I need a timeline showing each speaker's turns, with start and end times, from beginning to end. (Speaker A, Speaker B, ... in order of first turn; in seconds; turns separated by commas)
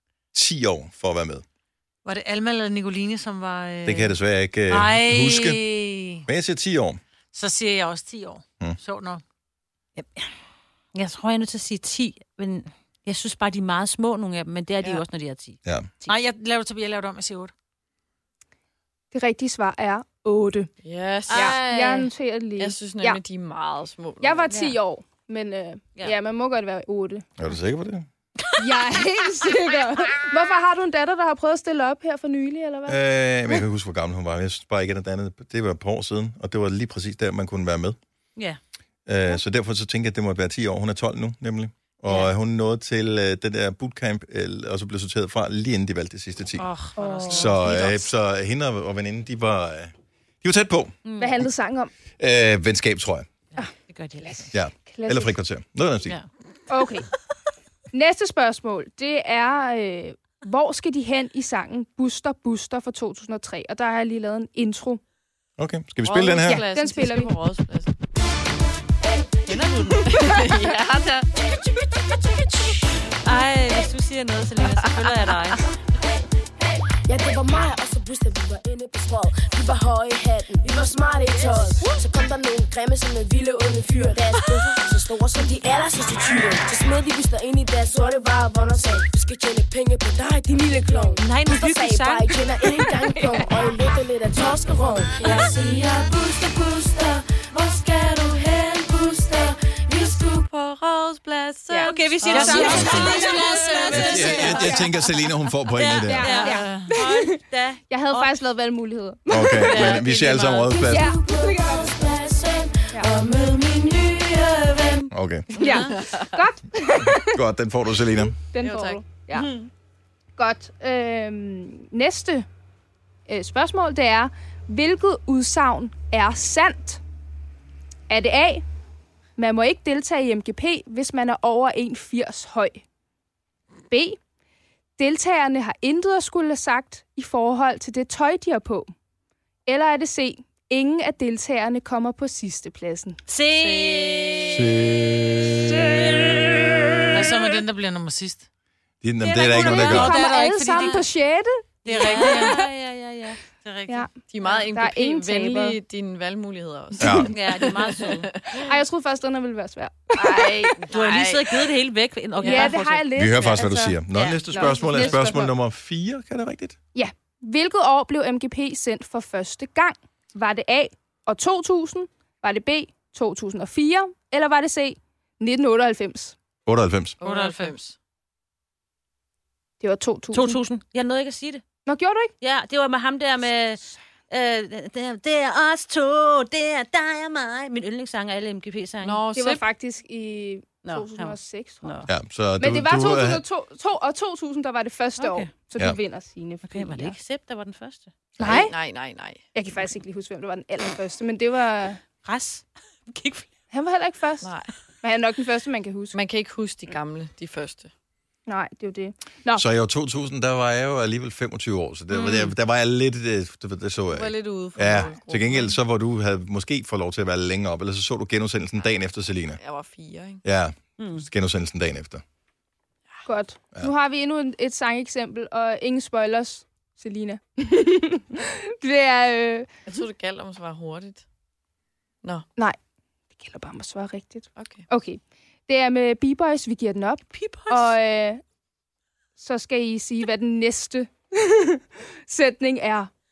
Speaker A: 0.3-1.4, Speaker B: 2.0-4.2, Speaker A: 3.8-5.6, Speaker B: 4.7-6.2, Speaker A: 6.2-7.0, Speaker B: 7.3-9.2, Speaker C: 9.9-10.3, Speaker C: 10.9-16.1, Speaker B: 16.1-17.5, Speaker D: 19.1-20.7, Speaker E: 20.8-24.5, Speaker D: 21.3-23.2, Speaker C: 21.3-21.6, Speaker D: 24.2-27.2, Speaker C: 24.5-24.8, Speaker A: 27.4-28.1, Speaker D: 28.6-33.6, Speaker A: 32.9-38.0, Speaker A: 39.0-46.6, Speaker C: 46.6-48.0, Speaker B: 46.9-47.6, Speaker D: 47.0-47.5, Speaker A: 47.3-50.9, Speaker C: 51.0-51.4, Speaker D: 51.2-51.9, Speaker A: 52.2-53.3, Speaker C: 53.5-54.5, Speaker D: 54.2-55.4, Speaker A: 54.5-56.2, Speaker D: 56.7-57.1, Speaker D: 57.9-65.0, Speaker A: 65.6-66.6, Speaker E: 66.0-67.9, Speaker D: 66.4-67.3, Speaker C: 69.5-70.3, Speaker E: 69.9-71.3, Speaker F: 71.4-72.7, Speaker C: 73.2-75.6, Speaker E: 74.6-75.3, Speaker F: 77.0-100.4, Speaker C: 91.2-92.4, Speaker E: 100.2-104.8, Speaker D: 101.7-104.8, Speaker C: 101.8-104.9, Speaker B: 102.3-103.1, Speaker A: 102.7-103.1, Speaker F: 102.9-104.5, Speaker A: 103.9-106.5, Speaker C: 105.7-108.3, Speaker D: 106.0-107.4, Speaker B: 106.5-106.9, Speaker D: 107.9-110.0, Speaker A: 109.3-111.1, Speaker E: 109.6-110.7, Speaker F: 110.7-115.1, Speaker D: 110.8-111.6, Speaker A: 115.1-115.5, Speaker E: 115.5-116.4, Speaker D: 115.6-117.4, Speaker C: 115.6-115.9, Speaker A: 117.2-118.4, Speaker D: 118.1-119.5, Speaker E: 118.6-119.1, Speaker D: 120.4-122.5, Speaker D: 123.3-127.0, Speaker D: 128.1-128.6, Speaker D: 129.4-132.8, Speaker D: 133.9-134.2, Speaker D: 135.0-138.9, Speaker D: 139.7-143.2, Speaker C: 143.3-144.7, Speaker E: 143.6-144.5, Speaker A: 144.4-147.3, Speaker B: 147.1-148.5, Speaker A: 149.0-150.1, Speaker C: 149.2-151.0, Speaker D: 149.5-152.6, Speaker B: 149.7-151.1, Speaker B: 151.8-152.6, Speaker C: 151.9-153.4, Speaker B: 153.6-154.1, Speaker D: 153.9-155.8, Speaker E: 154.3-158.8, Speaker A: 157.0-157.3, Speaker D: 157.0-157.3, Speaker C: 157.3-158.3, Speaker D: 158.5-160.8, Speaker E: 160.1-161.7, Speaker C: 160.9-163.1, Speaker E: 162.4-162.8, Speaker D: 162.4-164.0, Speaker A: 163.1-166.8, Speaker C: 164.1-164.8, Speaker D: 164.5-165.5, Speaker E: 164.8-165.3, Speaker D: 166.9-176.3, Speaker A: 176.7-177.2, Speaker E: 177.2-177.9, Speaker B: 177.2-177.9, Speaker D: 179.8-180.6, Speaker C: 180.3-181.6, Speaker D: 181.8-182.3, Speaker C: 182.4-189.2, Speaker E: 189.0-189.6, Speaker D: 189.3-192.0, Speaker C: 190.8-192.1, Speaker A: 192.1-193.4, Speaker D: 192.6-197.2, Speaker C: 195.2-195.5, Speaker C: 196.6-198.1, Speaker D: 198.4-198.7, Speaker E: 198.4-199.4, Speaker D: 199.5-202.0, Speaker C: 202.2-203.5, Speaker D: 203.7-204.5, Speaker E: 204.4-204.7, Speaker D: 205.0-206.2, Speaker E: 206.1-207.9, Speaker D: 208.5-209.6, Speaker A: 209.5-219.6, Speaker E: 214.1-215.8, Speaker E: 219.6-220.4, Speaker A: 220.4-222.2, Speaker C: 221.0-221.2, Speaker D: 223.2-229.7, Speaker E: 229.9-231.2, Speaker D: 233.4-238.4, Speaker E: 234.6-234.8, Speaker C: 237.3-237.9, Speaker D: 239.4-243.1